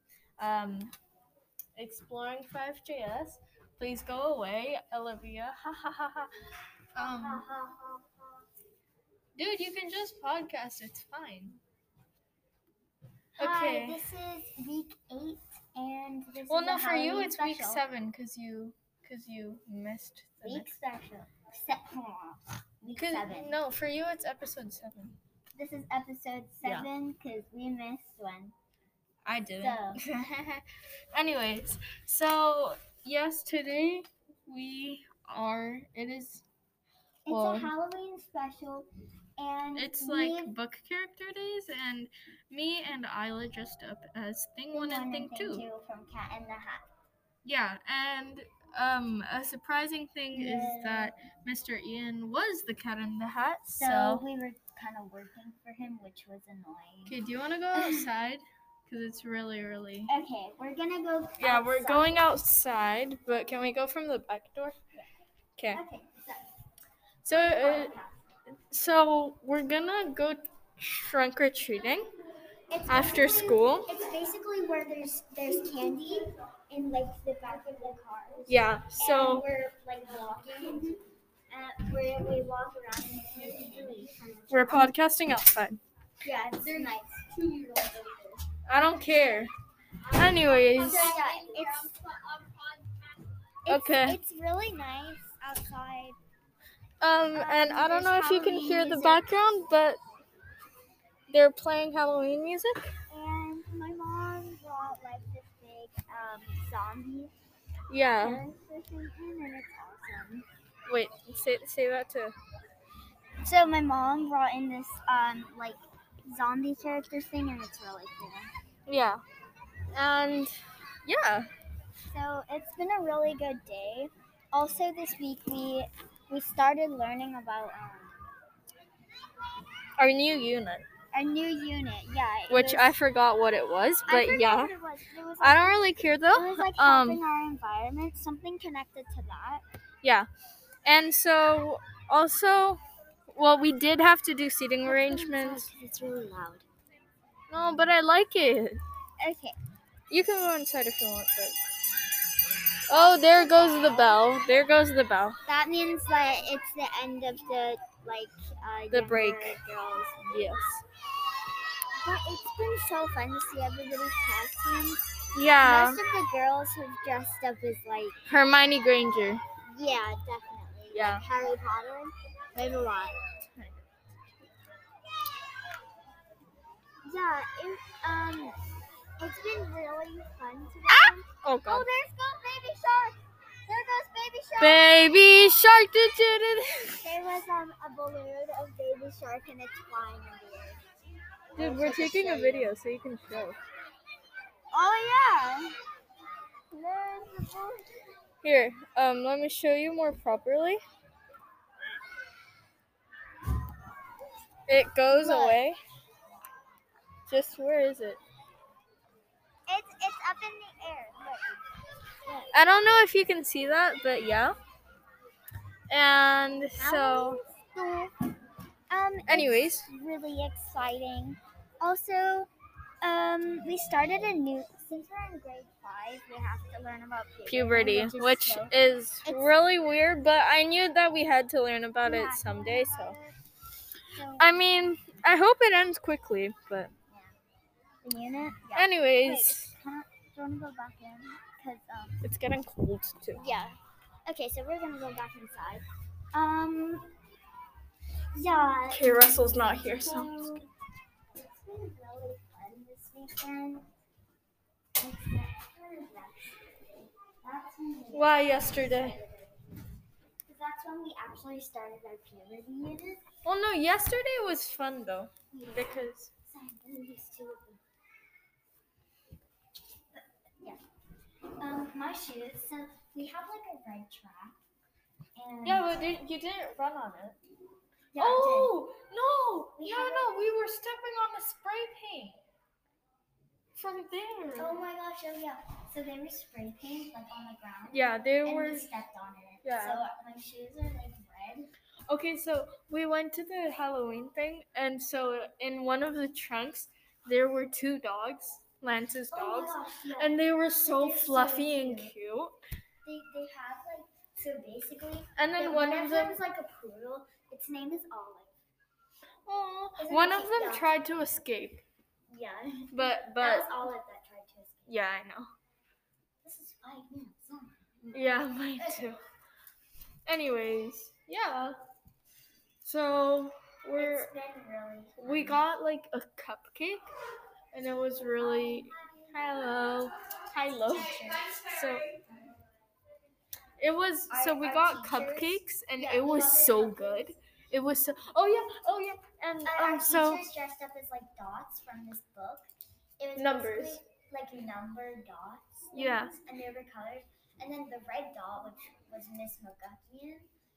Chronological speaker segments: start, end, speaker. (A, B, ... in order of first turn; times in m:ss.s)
0:00.4-0:00.9 A
0:01.8-0:06.3 A
0:06.9-0:07.4 A
0:07.0-0:08.5 B
0:09.3-0:11.6 A
0:13.4-0:17.8 B
0:13.4-0:14.0 A
0:16.5-0:20.8 A
0:20.4-0:23.6 B
0:23.0-0:25.2 A
0:25.6-0:28.5 B
0:29.2-0:36.4 A
0:29.6-0:30.0 B
0:37.2-0:40.5 B
0:37.3-0:37.7 A
0:39.7-0:45.6 A
0:44.7-0:46.9 B
0:47.4-0:54.2 A
0:50.3-0:51.1 B
0:53.8-0:57.2 B
0:57.0-1:00.1 A
0:57.7-0:58.0 B
1:00.1-1:02.2 B
1:01.4-1:04.8 A
1:05.6-1:05.8 A
1:05.7-1:06.5 B
1:07.2-1:08.0 A
1:07.3-1:08.3 B
1:08.7-1:12.1 A
1:12.7-1:24.9 B
1:12.9-1:13.9 A
1:18.5-1:19.5 A
1:24.5-1:25.8 A
1:26.2-1:27.4 B
1:27.4-1:27.9 A
1:28.5-1:29.5 A
1:30.0-1:31.9 B
1:30.1-1:32.6 A
1:33.7-1:36.2 B
1:33.7-1:34.2 A
1:37.0-1:40.0 A
1:37.3-1:39.2 B
1:41.3-1:42.9 A
1:43.1-1:47.3 B
1:47.9-1:48.4 A
1:48.2-1:50.4 B
1:50.9-1:52.3 A
1:53.4-1:58.5 B
1:58.9-1:59.2 A
1:59.9-2:01.5 A
2:02.1-2:08.3 B
2:10.0-2:10.9 A
2:11.1-2:13.0 B
2:12.5-2:14.8 A
2:14.1-2:19.6 B
2:15.4-2:17.2 A
2:20.8-2:25.7 A
2:24.9-2:26.7 B
2:27.5-2:28.8 A
2:29.2-2:29.6 B
2:30.1-2:31.6 A
2:32.9-2:35.4 A
2:32.9-2:34.3 B
2:35.5-2:40.7 B
2:38.9-2:39.6 A
2:40.3-2:40.8 A
2:42.0-2:45.1 B
2:45.3-2:46.0 A
2:45.6-2:48.2 B
2:48.3-2:49.4 A
2:49.6-2:53.4 B
2:50.9-2:51.2 A
2:53.6-2:53.9 A
2:57.0-2:58.6 B
2:59.2-3:04.9 B
3:00.9-3:01.9 A
3:04.6-3:07.0 A
3:07.0-3:10.8 B
3:11.5-3:12.7 B
3:11.6-3:13.6 A
3:14.7-3:15.8 B
3:16.7-3:18.0 B
3:18.4-3:20.8 A
3:24.7-3:25.8 A
3:25.1-3:25.6 B
3:27.3-3:28.2 A
3:29.7-3:31.6 B
3:32.2-3:32.5 B
3:32.5-3:34.6 A
3:35.9-3:37.4 A
3:36.8-3:38.1 B
3:38.9-3:42.5 B
3:39.3-3:39.9 A
3:43.0-3:48.7 B
3:47.5-3:53.2 A
3:49.2-3:49.5 B
3:52.0-3:53.4 B
3:54.1-3:54.5 B
3:54.4-3:56.9 A
3:57.1-3:57.4 B
3:58.0-4:02.3 B
3:58.8-3:59.7 A
4:02.2-4:03.5 A
4:03.3-4:07.1 B
4:08.3-4:10.7 B
4:08.9-4:10.3 A
4:11.3-4:13.9 B
4:15.0-4:23.2 B
4:18.1-4:19.2 A
4:23.4-4:26.3 A
4:25.5-4:27.8 B
4:30.2-4:30.8 B
4:31.6-4:34.6 B
4:35.4-4:36.0 B
4:35.6-4:37.4 A
4:38.1-4:38.8 B
4:38.2-4:42.4 A
4:39.8-4:40.5 B
4:43.8-4:44.8 A
4:44.6-4:51.7 B
4:47.9-4:48.9 A
4:49.6-4:50.0 A
4:52.1-5:02.6 A
4:59.3-5:02.1 B
5:03.0-5:08.5 B
5:05.4-5:06.4 A
5:09.4-5:11.8 A
5:10.0-5:10.9 B
5:12.3-5:14.9 B
5:12.9-5:13.9 A
5:14.9-5:15.5 A
5:16.4-5:18.2 B
5:18.1-5:19.2 A
5:18.8-5:19.1 B
5:20.2-5:21.8 A
5:22.8-5:24.3 A
5:24.0-5:25.6 B
5:25.2-5:27.1 A
5:27.7-5:32.1 A
5:28.2-5:32.2 B
5:33.8-5:40.5 A
5:34.3-5:37.4 B
5:39.6-5:50.5 B
5:43.4-5:44.0 A
5:45.9-5:46.4 A